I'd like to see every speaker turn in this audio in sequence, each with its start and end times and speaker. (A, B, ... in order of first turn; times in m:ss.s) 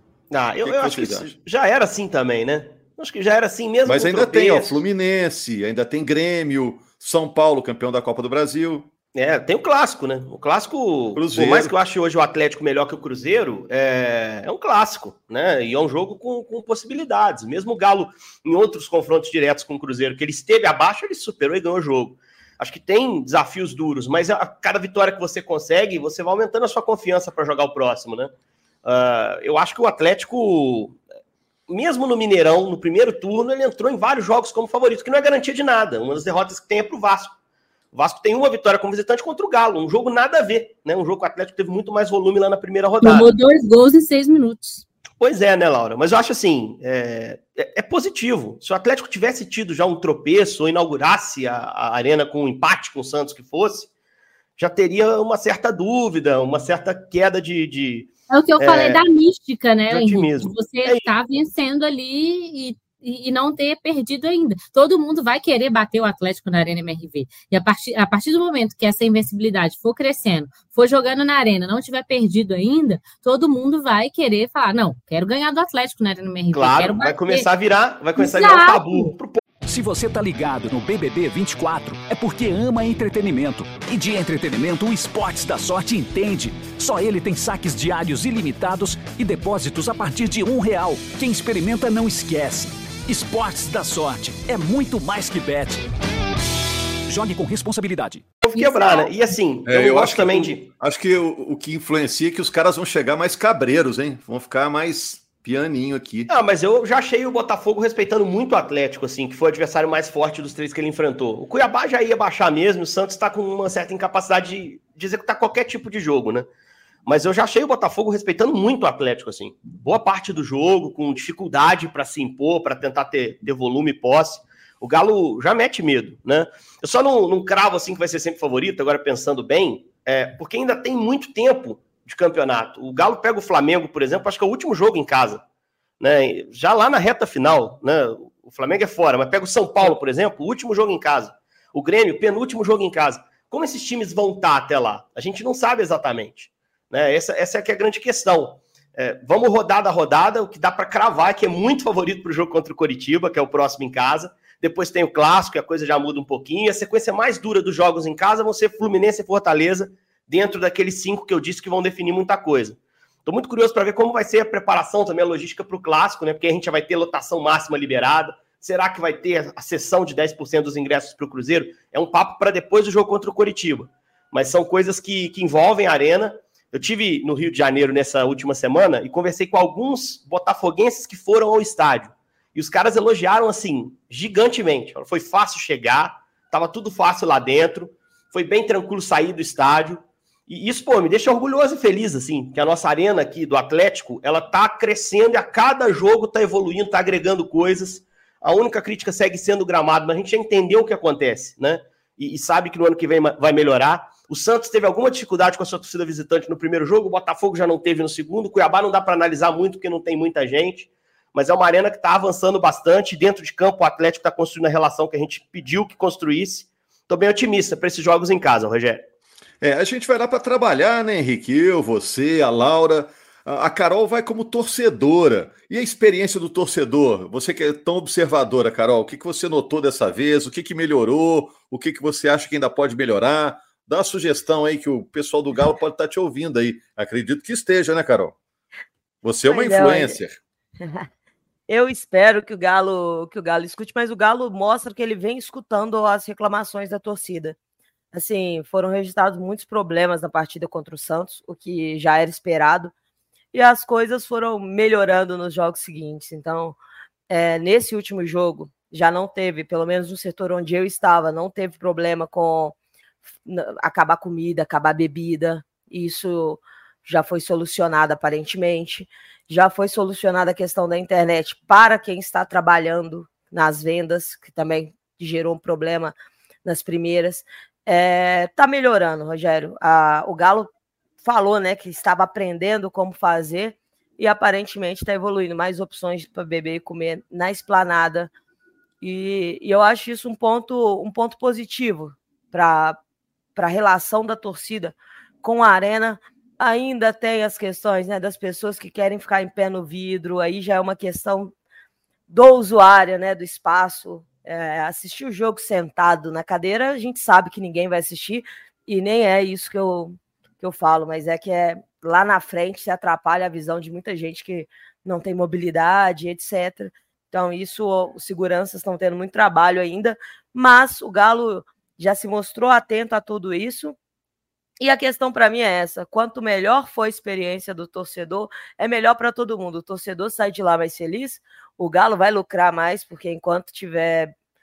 0:00.3-0:04.8 A
0:00.6-0:01.3 B
0:03.9-0:08.9 B
0:09.1-0:28.3 A
0:11.1-0:11.7 B
0:28.8-0:31.0 A
0:31.7-0:37.3 A
0:37.9-0:43.3 A
0:43.0-0:44.8 C
0:45.2-0:53.9 A
0:54.6-0:59.0 A
0:58.3-1:17.5 C
0:59.9-1:01.0 A
1:16.5-1:19.4 A
1:18.2-1:19.1 C
1:19.6-1:35.8 D
1:37.1-1:38.2 D
1:38.4-1:40.6 A
1:38.5-1:39.1 C
1:39.7-1:46.3 B
1:46.3-1:56.4 A
1:57.0-2:15.4 A
2:16.0-3:39.0 A
3:39.6-3:58.4 B
3:59.2-4:00.4 B
3:59.5-4:00.2 E
4:01.7-4:07.6 E
4:08.1-4:12.9 E
4:13.5-4:16.8 E
4:17.3-4:22.7 E
4:23.4-4:36.1 E
4:36.6-4:40.7 E
4:41.2-4:48.3 E
4:49.0-4:53.0 E
4:53.6-5:01.5 E
5:02.3-5:24.0 E
5:24.8-5:34.3 E